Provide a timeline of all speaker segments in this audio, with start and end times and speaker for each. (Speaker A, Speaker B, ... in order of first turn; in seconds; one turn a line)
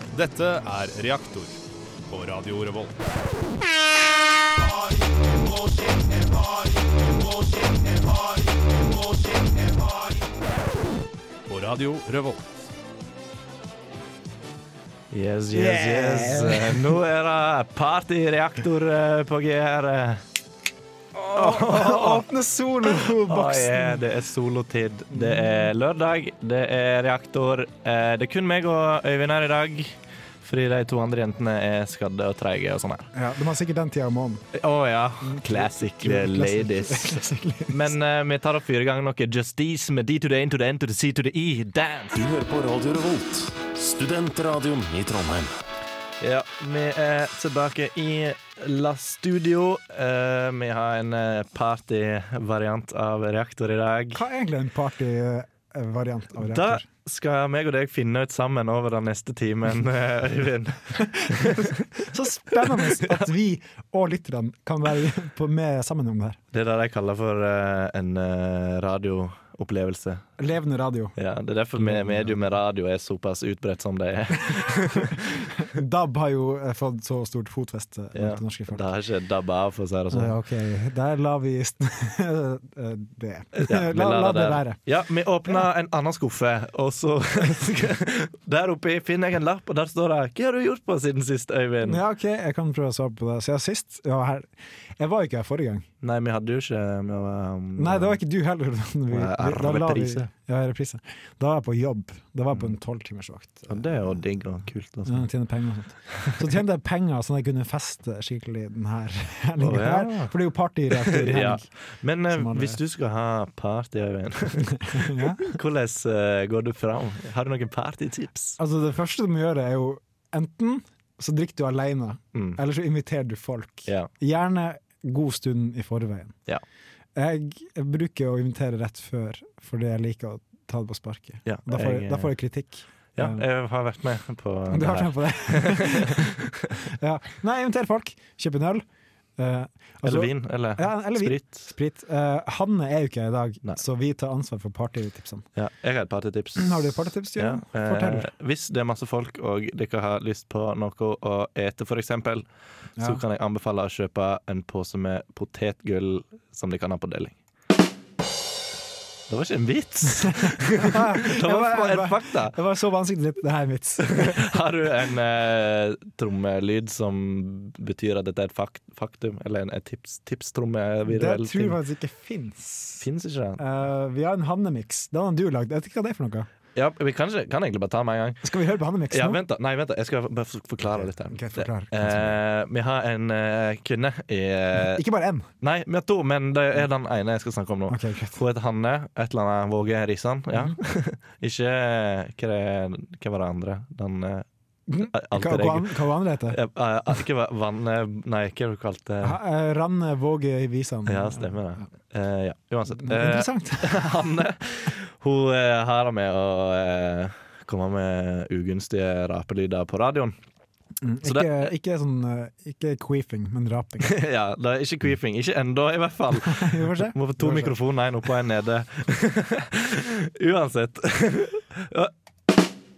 Speaker A: 0.1-1.6
Speaker A: 2.1-2.9
Speaker A: 4.8-6.4
Speaker A: 7.0-9.8
Speaker A: 11.5-12.4
Speaker B: 15.1-20.2
Speaker C: 15.5-17.0
Speaker C: 21.1-24.1
Speaker B: 21.3-22.3
Speaker B: 22.8-33.1
Speaker C: 25.1-25.7
Speaker C: 33.1-34.4
Speaker B: 34.5-42.3
Speaker C: 35.2-37.9
Speaker D: 42.1-45.6
Speaker B: 46.2-54.2
Speaker C: 54.1-56.9
Speaker B: 56.4-61.8
Speaker C: 61.0-66.4
Speaker B: 62.6-63.1
Speaker B: 66.5-70.2
Speaker C: 70.4-71.1
Speaker B: 71.2-75.2
Speaker C: 71.8-72.4
Speaker C: 75.0-78.8
Speaker B: 78.1-80.3
Speaker C: 80.1-84.8
Speaker B: 83.5-92.0
Speaker C: 91.8-95.8
Speaker B: 96.0-98.2
Speaker C: 97.8-104.2
Speaker B: 99.1-100.3
Speaker B: 103.7-105.3
Speaker C: 105.1-111.7
Speaker B: 109.6-110.3
Speaker B: 110.9-118.6
Speaker C: 112.3-112.8
Speaker C: 114.9-115.4
Speaker C: 118.6-126.4
Speaker B: 122.3-122.6
Speaker C: 127.2-133.4
Speaker B: 131.4-132.3
Speaker B: 133.2-136.3
Speaker C: 134.7-138.8
Speaker C: 139.4-145.4
Speaker B: 140.0-141.7
Speaker B: 145.6-152.5
Speaker C: 146.6-148.3
Speaker B: 153.0-157.4
Speaker B: 159.3-162.6
Speaker C: 160.4-164.6
Speaker B: 164.0-171.8
Speaker C: 171.1-173.1
Speaker B: 173.0-173.6
Speaker C: 173.6-176.5
Speaker B: 176.8-178.5
Speaker C: 178.4-179.4
Speaker B: 179.1-185.0
Speaker C: 180.9-182.4
Speaker C: 184.8-185.5
Speaker B: 185.6-194.5
Speaker C: 187.9-188.4
Speaker C: 194.9-196.6
Speaker B: 195.0-199.4
Speaker C: 199.2-201.8
Speaker B: 201.1-210.4
Speaker C: 202.9-204.0
Speaker C: 211.0-214.1
Speaker B: 211.2-211.7
Speaker B: 214.0-222.1
Speaker C: 216.4-217.8